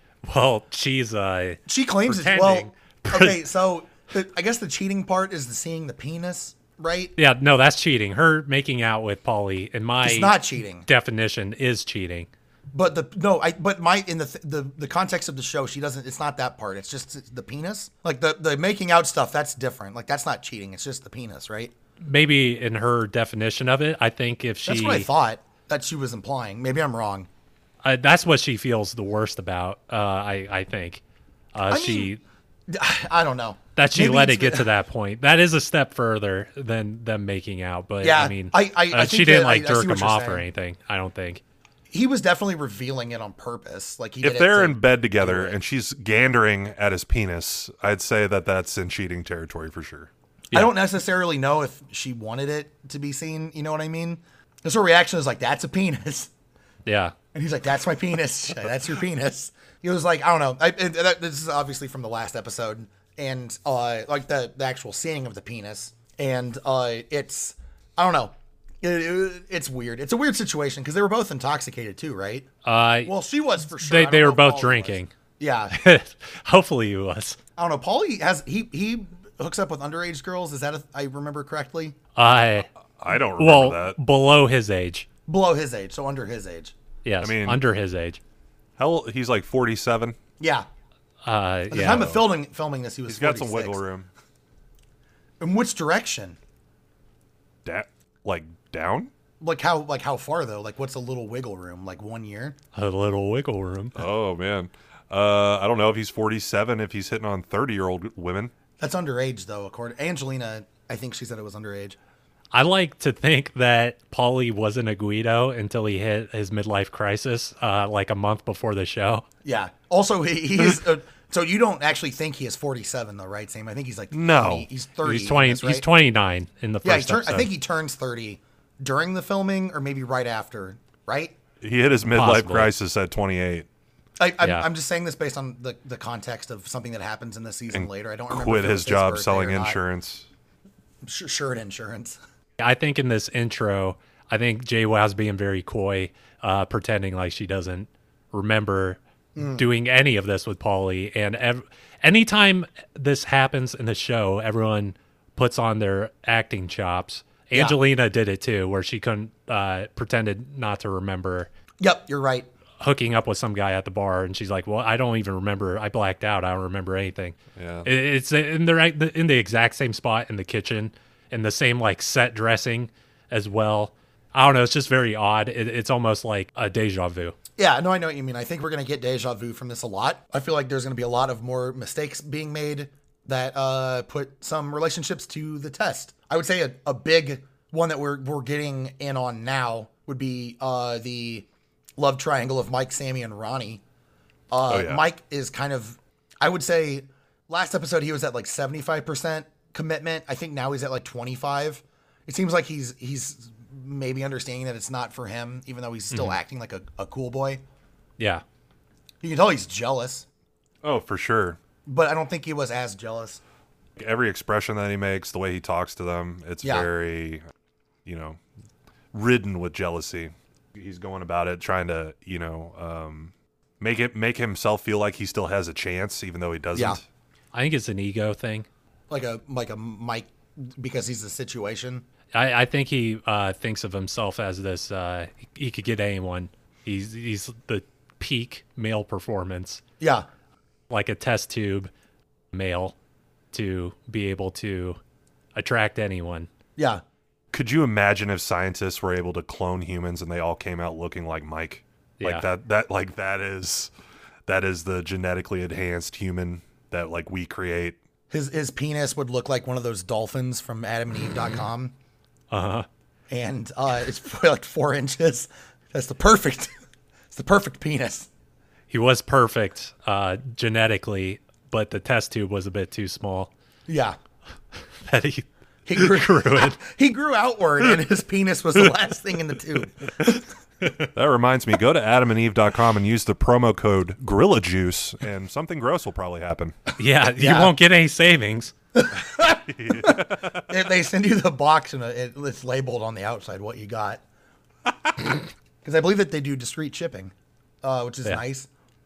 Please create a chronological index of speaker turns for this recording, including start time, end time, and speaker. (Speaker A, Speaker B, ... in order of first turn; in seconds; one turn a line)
Speaker A: 0.2-3.4
Speaker B: 1.7-7.1
Speaker A: 7.2-12.3
Speaker B: 10.0-10.8
Speaker B: 12.7-21.7
Speaker A: 22.0-25.1
Speaker B: 24.6-27.3
Speaker A: 27.8-31.0
Speaker A: 31.5-32.2
Speaker B: 31.7-32.1
Speaker B: 32.7-34.7
Speaker A: 33.8-41.4
Speaker B: 38.0-40.4
Speaker B: 41.9-45.6
Speaker C: 44.2-50.1
Speaker B: 50.5-56.3
Speaker A: 56.9-57.1
Speaker B: 57.3-72.5
Speaker A: 72.6-73.1
Speaker B: 73.1-75.8
Speaker A: 73.7-75.1
Speaker A: 75.7-77.4
Speaker B: 77.6-82.0
Speaker A: 82.2-82.7
Speaker C: 83.0-84.0
Speaker A: 83.4-85.1
Speaker B: 85.3-86.8
Speaker A: 87.0-88.2
Speaker C: 87.2-87.6
Speaker C: 88.8-90.1
Speaker B: 90.4-90.7
Speaker A: 91.2-92.2
Speaker B: 91.7-93.8
Speaker C: 93.1-94.1
Speaker B: 95.4-96.4
Speaker C: 97.6-99.1
Speaker B: 99.4-102.6
Speaker A: 102.7-104.0
Speaker C: 104.0-108.5
Speaker B: 108.8-112.0
Speaker A: 112.5-119.2
Speaker B: 119.4-125.9
Speaker C: 124.1-124.7
Speaker A: 125.0-127.5
Speaker B: 126.8-131.3
Speaker C: 131.6-133.7
Speaker A: 132.1-132.7
Speaker B: 134.2-139.8
Speaker A: 134.4-134.7
Speaker C: 137.7-140.2
Speaker B: 141.0-142.2
Speaker A: 142.6-161.5
Speaker B: 149.4-149.7
Speaker B: 161.8-162.5
Speaker A: 162.8-177.3
Speaker C: 167.6-167.9
Speaker B: 177.6-191.5
Speaker B: 192.0-193.8
Speaker B: 194.5-207.6
Speaker C: 194.7-195.1
Speaker A: 206.1-206.4
Speaker B: 209.2-210.2
Speaker C: 210.8-211.6
Speaker B: 211.9-213.4
Speaker C: 214.0-217.4
Speaker B: 216.6-216.9
Speaker C: 218.1-218.4
Speaker C: 219.1-227.0
Speaker B: 226.7-227.0
Speaker A: 227.5-228.7
Speaker B: 229.1-232.1
Speaker A: 232.3-239.8
Speaker B: 240.0-240.3
Speaker A: 240.9-241.9
Speaker A: 242.5-242.9
Speaker A: 243.5-245.0
Speaker A: 245.6-246.5
Speaker B: 246.8-247.0
Speaker C: 247.5-253.9
Speaker A: 252.2-252.4
Speaker C: 254.5-258.0
Speaker B: 258.3-261.9
Speaker A: 262.5-262.9
Speaker B: 263.3-266.7
Speaker B: 267.3-268.3
Speaker A: 268.9-273.5
Speaker B: 273.9-274.2
Speaker A: 275.0-276.8
Speaker B: 275.9-280.4
Speaker C: 281.1-286.8
Speaker A: 287.0-288.7
Speaker B: 287.4-287.7
Speaker B: 288.9-294.2
Speaker C: 289.4-290.7
Speaker B: 295.8-298.7